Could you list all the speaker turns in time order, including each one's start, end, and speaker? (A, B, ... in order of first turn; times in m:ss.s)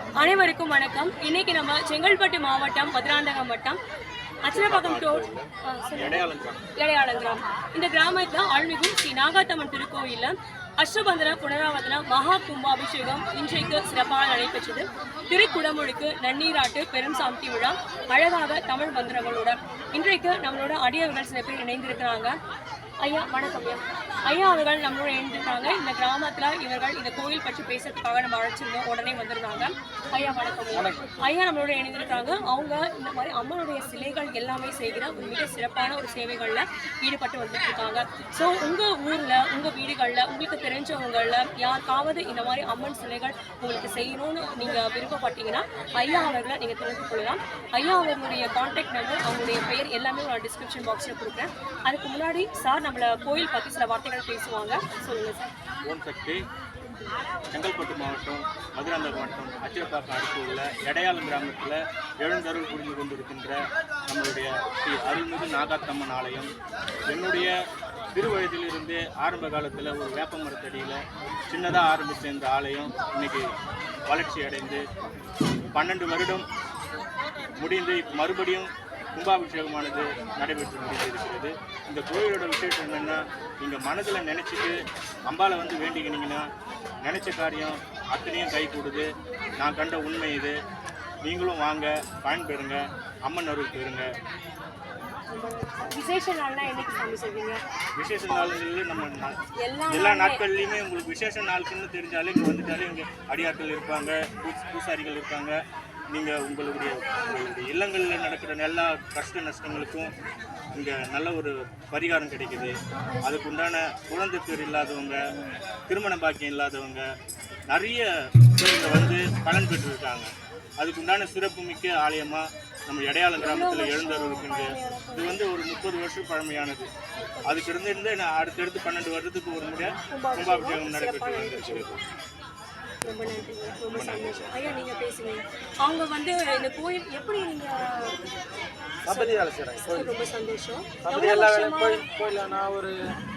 0:00.2-0:03.8 A
0:04.4-0:22.3 A
0:04.5-0:06.7 B
0:23.0-0:55.5 A
0:30.7-0:31.0 C
0:55.9-0:56.4 B
0:57.5-1:03.6 B
1:04.1-1:06.5 B
1:07.1-1:07.5 B
1:08.1-1:11.0 B
1:11.5-1:13.4 B
1:14.1-1:14.8 B
1:15.7-1:16.4 B
1:17.6-1:24.8 B
1:25.3-1:26.4 B
1:27.0-1:30.5 B
1:31.2-1:34.0 B
1:35.3-1:37.6 A
1:38.0-1:39.4 B
1:38.2-1:38.6 A
1:39.6-1:40.4 A
1:39.9-1:45.6 B
1:46.1-1:50.1 B
1:50.8-1:55.2 B
1:52.9-1:53.4 A
1:55.9-1:57.0 B
1:57.7-2:00.3 B
2:00.8-2:06.9 B
2:03.4-2:05.4 A
2:07.2-2:07.7 A
2:07.5-2:12.0 B
2:10.1-2:11.9 A
2:13.0-2:18.2 A
2:13.9-2:14.8 B
2:19.0-2:20.1 C
2:19.1-2:22.0 A
2:21.0-2:22.9 C